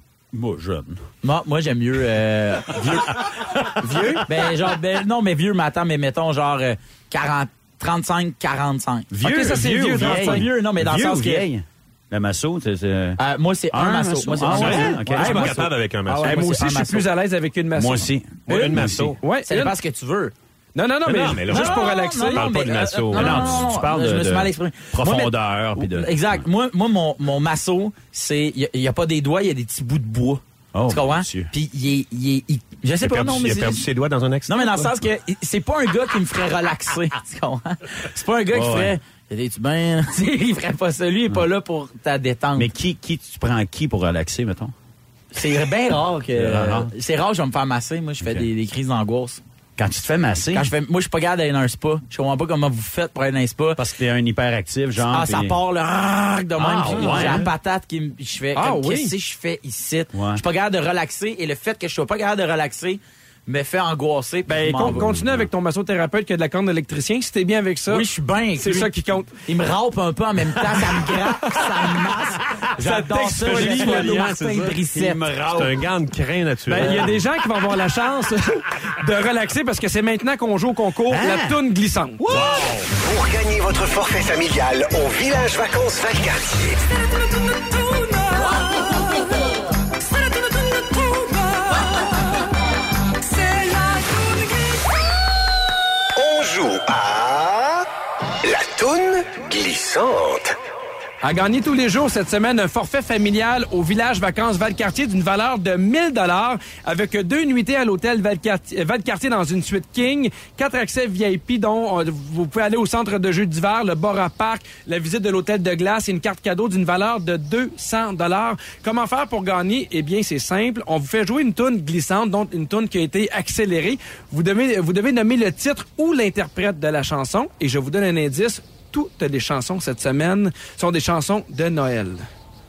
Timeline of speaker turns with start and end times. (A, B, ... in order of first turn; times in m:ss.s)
0:00.3-0:01.0 A
0:01.2-0:03.3 B
0:02.8-0:04.1 A
0:03.8-0:04.2 C
0:04.2-0:09.1 B
0:09.1-0:13.2 A
0:09.2-0:10.4 C
0:10.0-0:11.5 B
0:13.2-0:17.1 B
0:13.7-0:15.6 A
0:14.5-0:16.4 D
0:16.2-0:19.8 C
0:17.8-0:19.2 A
0:18.4-0:19.2 D
0:19.4-0:20.3 B
0:20.7-0:22.5 C
0:21.0-0:23.7 D
0:21.5-0:33.8 B
0:23.1-0:26.4 A
0:30.7-0:31.5 A
0:33.0-0:34.9 D
0:34.5-0:42.7 B
0:38.5-0:38.9 A
0:42.6-0:44.7 A
0:45.3-0:49.4 B
0:46.3-0:46.9 A
0:48.2-0:48.5 A
0:49.8-0:50.7 A
0:50.5-0:53.8 B
0:53.8-0:55.6 A
0:55.0-1:05.1 B
0:56.6-0:57.5 A
0:58.6-0:59.1 C
1:00.1-1:00.4 A
1:04.5-1:09.3 C
1:04.8-1:05.5 A
1:07.9-1:08.9 B
1:09.4-1:15.2 B
1:12.8-1:14.2 C
1:13.5-1:14.8 D
1:14.9-1:15.8 A
1:15.4-1:17.1 D
1:16.7-1:22.2 C
1:21.1-1:21.6 A
1:22.3-1:22.9 A
1:22.3-1:22.6 D
1:22.9-1:26.8 E
1:27.6-1:29.3 C
1:30.2-1:32.1 C
1:33.4-1:34.2 C
1:36.2-1:37.8 E
1:38.4-1:40.6 E
1:41.2-2:12.2 C